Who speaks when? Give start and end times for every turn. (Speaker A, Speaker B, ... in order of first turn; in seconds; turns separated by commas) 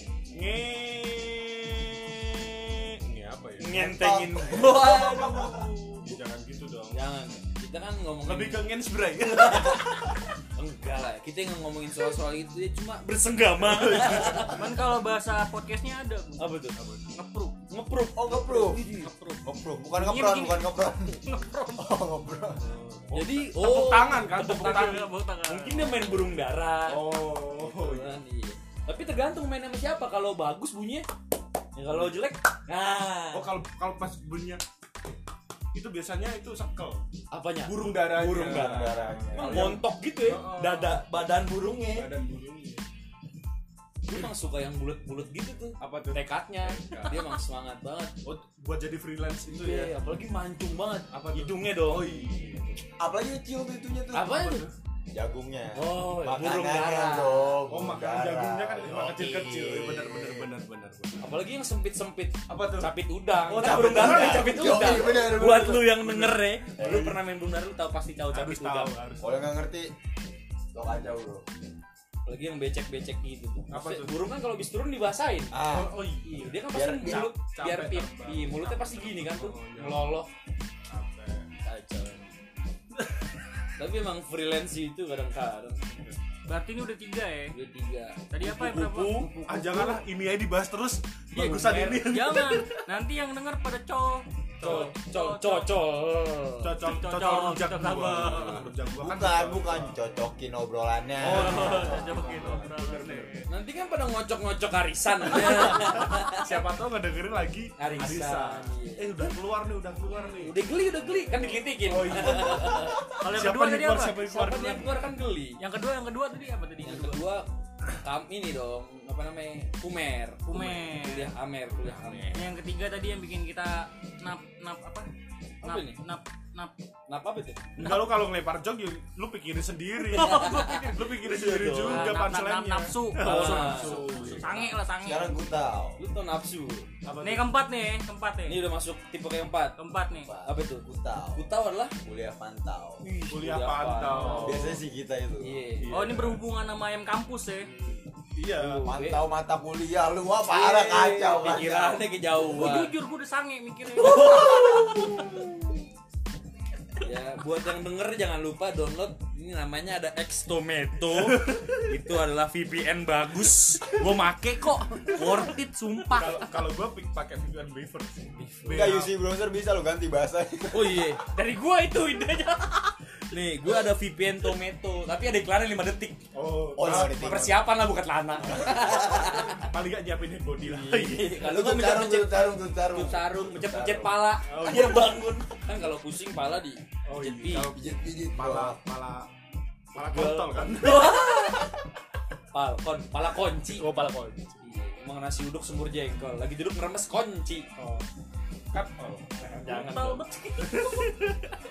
Speaker A: 0.3-3.8, Speaker B: 3.6-6.2, Speaker C: 3.7-5.6, Speaker A: 5.0-5.5, Speaker A: 6.0-7.0, Speaker B: 6.9-8.7, Speaker A: 8.2-10.2, Speaker B: 9.2-14.7, Speaker A: 13.6-14.8, Speaker D: 14.4-16.5, Speaker B: 16.4-16.8, Speaker A: 16.8-17.2, Speaker D: 17.1-17.5, Speaker B: 17.7-19.1, Speaker C: 18.1-18.8, Speaker D: 18.7-21.9, Speaker C: 19.4-21.2, Speaker C: 21.8-22.6, Speaker A: 22.6-25.1, Speaker B: 23.1-31.1, Speaker D: 24.4-26.2, Speaker A: 26.9-28.1, Speaker B: 31.7-33.5, Speaker A: 31.9-32.2, Speaker A: 33.3-34.6, Speaker A: 35.7-37.0, Speaker B: 37.3-42.1, Speaker A: 37.6-41.0, Speaker C: 38.3-39.8, Speaker A: 41.9-42.8, Speaker B: 44.0-48.1, Speaker A: 45.8-47.4, Speaker A: 48.2-50.0, Speaker B: 49.5-52.2, Speaker A: 51.1-52.8, Speaker C: 53.0-54.4, Speaker B: 54.1-54.6, Speaker A: 54.3-54.7, Speaker C: 55.1-60.5, Speaker B: 55.7-57.6, Speaker A: 57.7-61.2, Speaker B: 59.1-59.7, Speaker B: 61.2-68.9, Speaker A: 62.5-62.9, Speaker A: 63.5-65.3, Speaker C: 63.5-66.0, Speaker A: 65.8-67.2, Speaker C: 66.8-67.2, Speaker A: 68.3-69.5, Speaker C: 69.2-69.9, Speaker C: 70.7-71.4, Speaker B: 72.2-80.3, Speaker A: 73.7-74.1, Speaker C: 75.5-76.1, Speaker A: 75.7-80.1, Speaker C: 76.7-77.3, Speaker A: 80.9-81.5, Speaker B: 81.6-82.3, Speaker B: 83.8-85.9, Speaker D: 86.5-87.5, Speaker B: 87.5-89.3, Speaker D: 88.3-90.0, Speaker A: 89.4-92.7, Speaker B: 91.3-92.0, Speaker D: 91.4-95.7, Speaker A: 94.6-94.9, Speaker B: 94.6-96.7, Speaker A: 96.6-100.0, Speaker D: 96.8-98.7, Speaker C: 98.9-102.0, Speaker A: 101.2-103.5, Speaker B: 101.2-102.0, Speaker D: 101.2-103.4, Speaker B: 103.5-106.5, Speaker A: 105.3-110.5, Speaker D: 105.5-105.8, Speaker B: 107.8-109.3, Speaker B: 110.4-113.1, Speaker A: 111.4-115.0, Speaker D: 113.1-114.3, Speaker B: 114.2-115.6, Speaker D: 115.6-117.2, Speaker B: 116.8-117.5, Speaker B: 118.0-122.5, Speaker D: 120.5-121.3, Speaker A: 121.8-122.4, Speaker D: 122.3-125.1, Speaker B: 125.6-126.0, Speaker D: 125.6-126.7, Speaker B: 127.1-127.7, Speaker A: 127.8-134.6, Speaker D: 130.1-131.0, Speaker B: 130.1-132.2, Speaker D: 131.8-135.4, Speaker B: 133.2-134.8, Speaker C: 135.0-136.0, Speaker B: 136.0-136.9, Speaker A: 137.0-137.5, Speaker D: 137.2-138.6, Speaker B: 138.4-139.8, Speaker D: 139.8-140.3, Speaker C: 140.2-141.4, Speaker B: 140.4-141.9, Speaker C: 142.0-143.0, Speaker B: 143.0-144.8, Speaker A: 143.3-144.8, Speaker D: 144.1-144.5, Speaker C: 144.4-145.6, Speaker B: 145.4-145.9, Speaker A: 145.8-146.4, Speaker D: 145.9-147.7, Speaker A: 148.3-148.8, Speaker B: 148.5-149.3, Speaker C: 148.8-152.0, Speaker B: 150.4-152.9, Speaker D: 152.4-155.3, Speaker B: 154.0-155.4, Speaker B: 157.0-166.4, Speaker A: 161.1-161.8, Speaker A: 166.1-169.2, Speaker B: 168.3-169.0, Speaker C: 168.7-171.2, Speaker B: 170.7-176.2, Speaker A: 176.3-177.5, Speaker C: 176.8-177.6, Speaker B: 176.8-179.7, Speaker C: 178.4-179.4, Speaker A: 179.6-181.3, Speaker C: 180.6-184.2, Speaker B: 180.7-187.7, Speaker A: 184.4-185.2, Speaker A: 187.1-189.3, Speaker C: 187.7-188.8, Speaker A: 189.9-191.3, Speaker B: 189.9-191.7, Speaker B: 192.5-193.8, Speaker A: 193.7-194.6, Speaker B: 194.6-197.7, Speaker A: 197.8-198.1, Speaker A: 198.7-199.5, Speaker B: 199.4-200.9, Speaker D: 199.6-200.9, Speaker A: 200.6-201.3